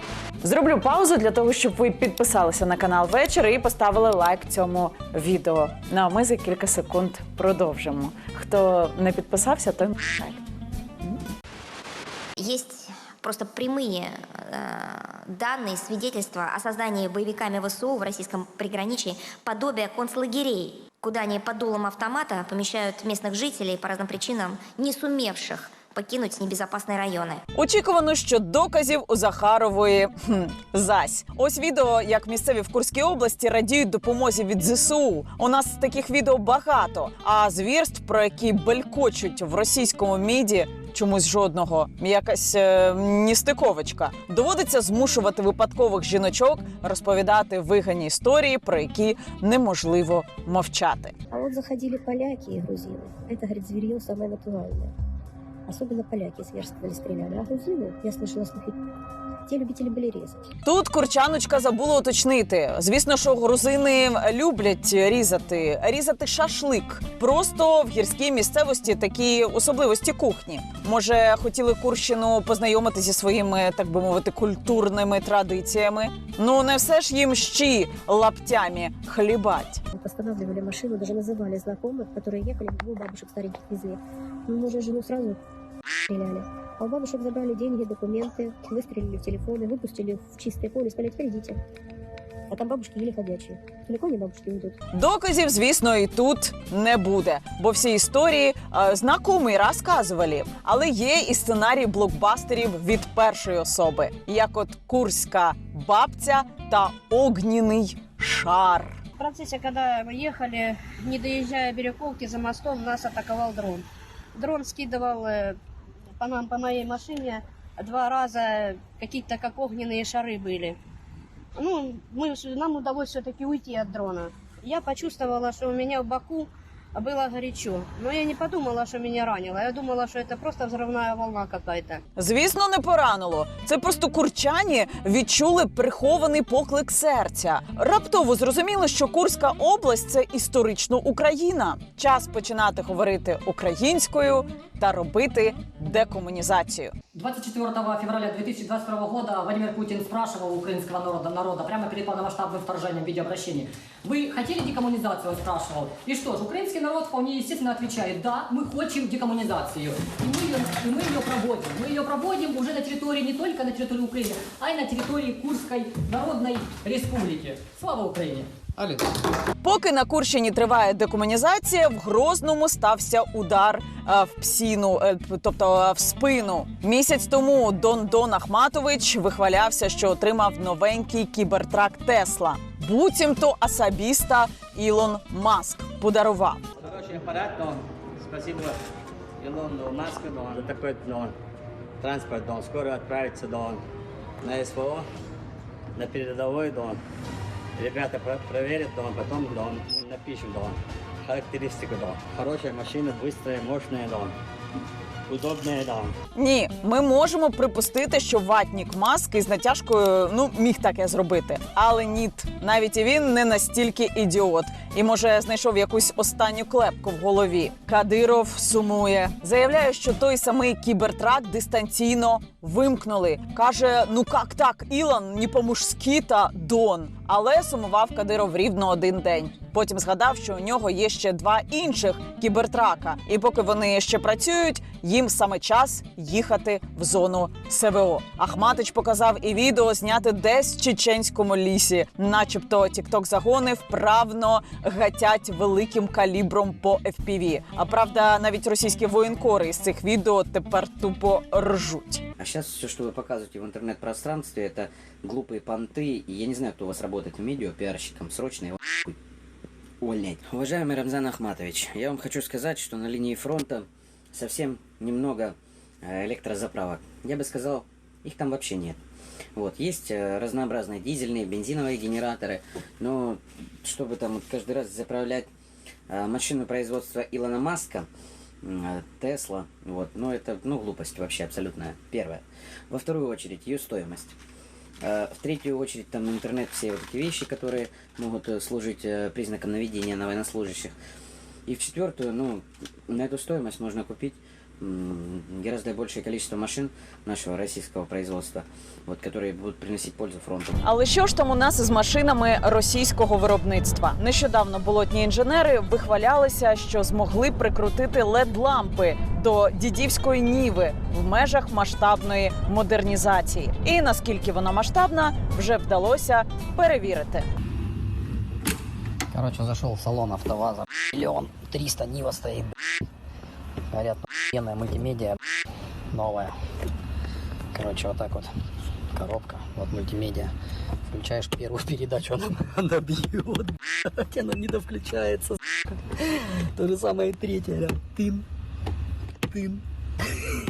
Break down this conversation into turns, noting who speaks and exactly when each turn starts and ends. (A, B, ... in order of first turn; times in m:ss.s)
0:00.4-0:10.4 A
0:12.4-0:27.4 B
0:27.5-0:51.1 A
0:51.3-0:54.9 C
0:55.7-0:58.7 C
0:59.5-1:00.5 C
1:00.6-1:19.8 A
1:19.9-1:25.4 C
1:26.1-1:31.6 C
1:32.5-1:34.8 C
1:34.9-1:49.0 A
1:49.2-1:53.8 D
1:54.4-1:55.6 D
1:56.2-2:00.8 D
2:01.6-2:12.0 D
2:12.2-2:26.9 A
2:27.1-2:48.5 E
2:49.6-3:06.6 A
3:06.8-3:08.8 F
3:09.4-3:11.3 F
3:12.0-3:13.8 F
3:14.4-3:15.0 F
3:16.0-3:17.0 F
3:17.8-3:24.3 F
3:25.3-3:26.1 F
3:26.3-4:12.2 A
4:12.4-4:19.1 G
4:20.0-4:29.0 G
4:29.6-4:35.5 G
4:36.1-4:38.1 G
4:38.6-4:44.4 G
4:45.0-4:50.9 G
4:51.7-5:00.8 G
5:00.8-5:17.5 A
5:19.3-5:22.7 H
5:23.9-5:25.4 H
5:26.1-5:26.5 H
5:27.7-5:28.5 H
5:29.1-5:30.5 H
5:31.1-5:36.2 H
5:36.7-5:38.4 H
5:39.5-5:39.8 H